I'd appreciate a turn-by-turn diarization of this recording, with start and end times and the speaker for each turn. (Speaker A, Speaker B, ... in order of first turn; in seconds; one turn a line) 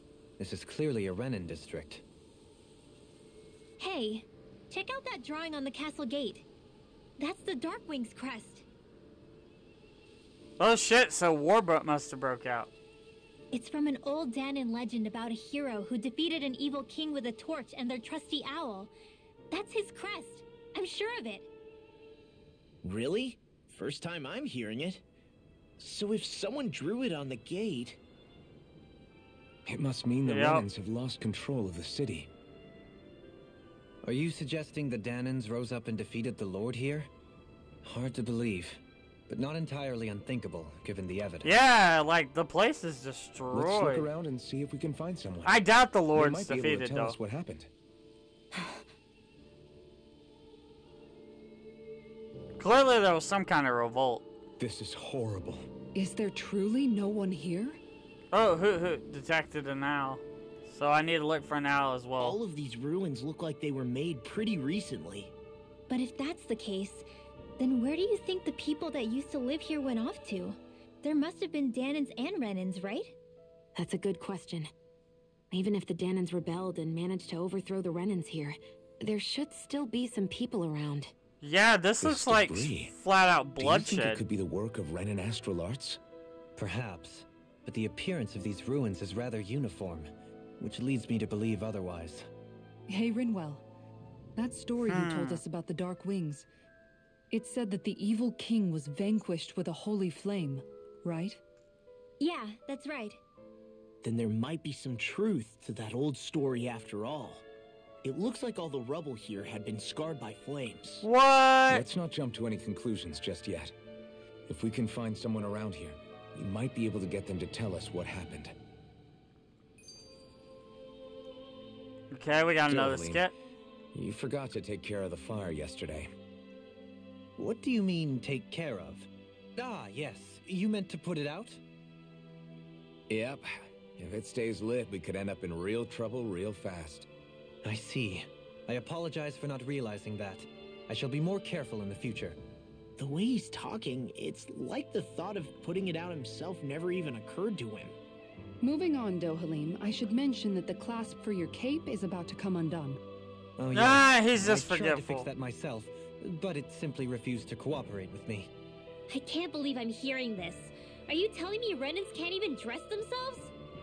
Speaker A: 0.4-2.0
Speaker B: 3.8-6.5
Speaker B: 7.2-8.6
Speaker C: 10.6-12.7
Speaker B: 13.5-18.9
Speaker B: 19.5-21.5
Speaker D: 22.8-25.0
Speaker D: 25.8-28.0
Speaker E: 29.7-32.3
Speaker C: 30.2-30.6
Speaker A: 34.0-37.1
Speaker A: 37.8-41.5
Speaker C: 41.4-44.1
Speaker E: 43.5-45.6
Speaker C: 45.5-47.2
Speaker E: 46.1-47.7
Speaker F: 48.5-48.8
Speaker C: 52.6-54.2
Speaker E: 54.6-55.7
Speaker G: 56.0-57.8
Speaker C: 58.3-62.4
Speaker D: 62.2-65.3
Speaker B: 65.9-67.1
Speaker B: 67.6-73.1
Speaker F: 73.8-74.7
Speaker F: 75.5-81.1
Speaker C: 81.4-84.2
Speaker E: 82.0-82.9
Speaker E: 83.6-86.0
Speaker A: 86.6-90.1
Speaker A: 90.6-92.3
Speaker G: 92.9-93.6
Speaker G: 94.4-96.5
Speaker C: 94.9-95.4
Speaker G: 97.3-101.4
Speaker B: 102.2-103.2
Speaker D: 104.0-107.4
Speaker D: 108.0-111.0
Speaker C: 111.0-111.9
Speaker E: 111.7-113.7
Speaker E: 114.5-118.5
Speaker C: 122.1-123.3
Speaker E: 122.6-123.3
Speaker E: 123.9-126.1
Speaker A: 127.4-131.6
Speaker E: 133.1-137.1
Speaker A: 137.6-142.4
Speaker D: 143.0-147.9
Speaker G: 148.6-153.0
Speaker A: 153.6-158.5
Speaker C: 153.8-155.3
Speaker B: 159.1-163.5